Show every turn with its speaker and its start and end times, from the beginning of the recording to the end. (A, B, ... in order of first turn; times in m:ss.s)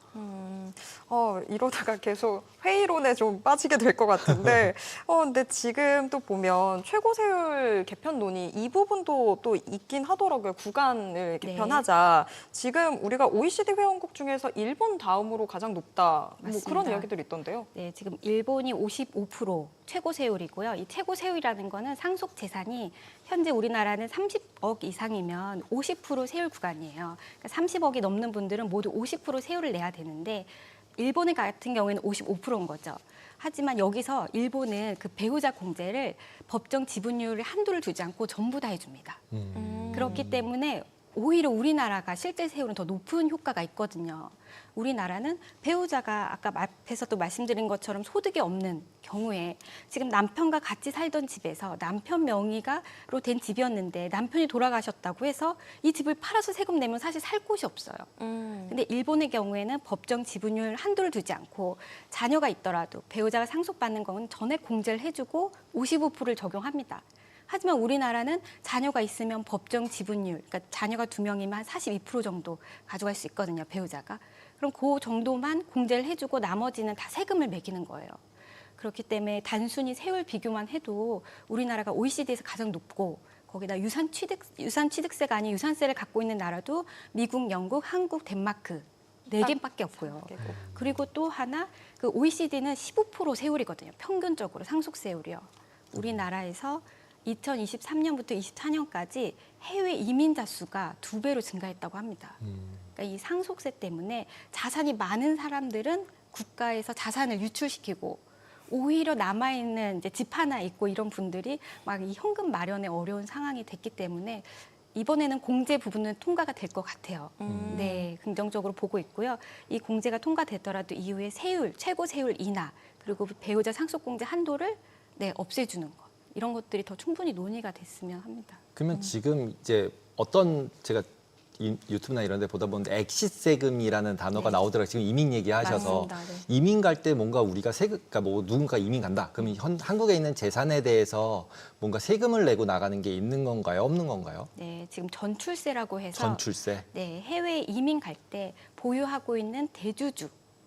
0:00.1-0:17.7 A
0:11.4-0:11.8 B
0:16.4-0:17.1 B
0:17.7-0:39.2 B
0:39.3-0:40.5 C
0:39.5-0:40.3 A
0:39.9-0:58.1 B
0:58.2-0:58.8 A
0:58.7-1:18.2 B
1:18.8-1:42.4 B
1:29.3-1:30.6 A
1:30.4-1:31.1 C
1:35.9-1:36.2 C
1:42.4-1:42.9 C
1:43.0-2:08.6 B
1:57.4-1:58.1 A
1:57.5-1:57.9 C
2:08.8-2:11.1 C
2:11.6-2:24.5 C
2:14.3-2:14.6 B
2:15.6-2:16.5 B
2:15.6-2:16.0 A
2:24.6-2:30.3 B
2:26.1-2:26.9 C